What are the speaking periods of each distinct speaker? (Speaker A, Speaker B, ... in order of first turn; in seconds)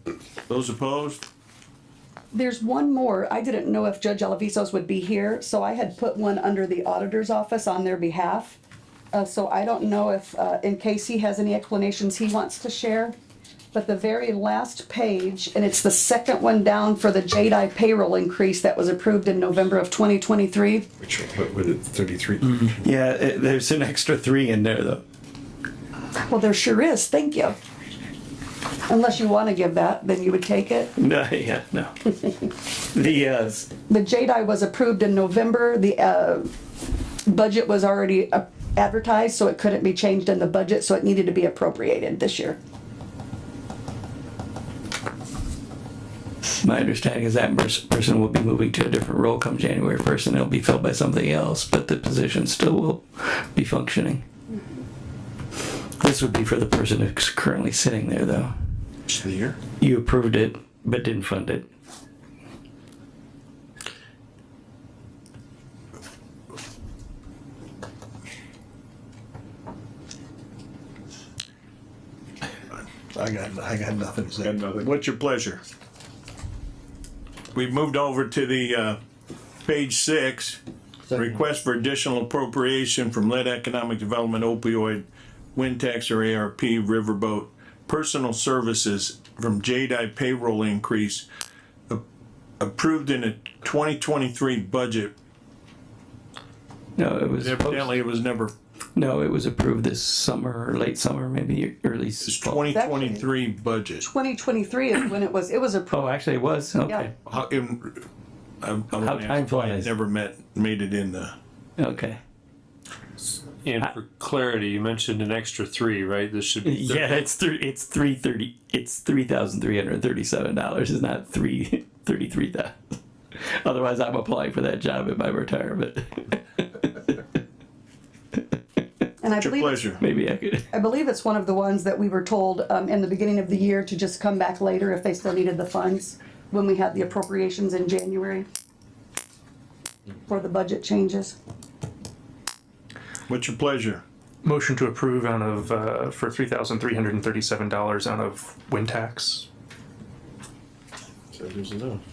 Speaker A: 0.5-1.2, 73.1-75.6, 77.5-79.0, 79.6-80.6, 81.1-85.0, 85.5-91.2, 92.6-95.1, 97.4-98.5, 102.2-104.0, 107.2-108.0, 108.6-111.3, 129.4-130.0, 143.3-144.0
Speaker B: 2.3-8.6, 9.1-13.1, 13.7-20.9, 26.3-27.6, 28.9-30.9, 33.9-36.5, 37.2-42.6, 102.7-103.2, 104.0-106.1, 129.2-129.8, 130.7-138.4, 140.3-141.3
Speaker C: 21.0-22.8, 151.4-152.0
Speaker D: 22.8-25.0, 30.9-33.7, 46.5-54.2, 56.0-58.5, 59.8-61.6, 97.0-97.9, 99.0-102.6, 105.9-107.1, 108.9-109.9, 111.8-112.2, 116.6-122.7, 123.3-127.1, 130.0-130.7
Speaker E: 113.4-117.2
Speaker F: 144.4-149.4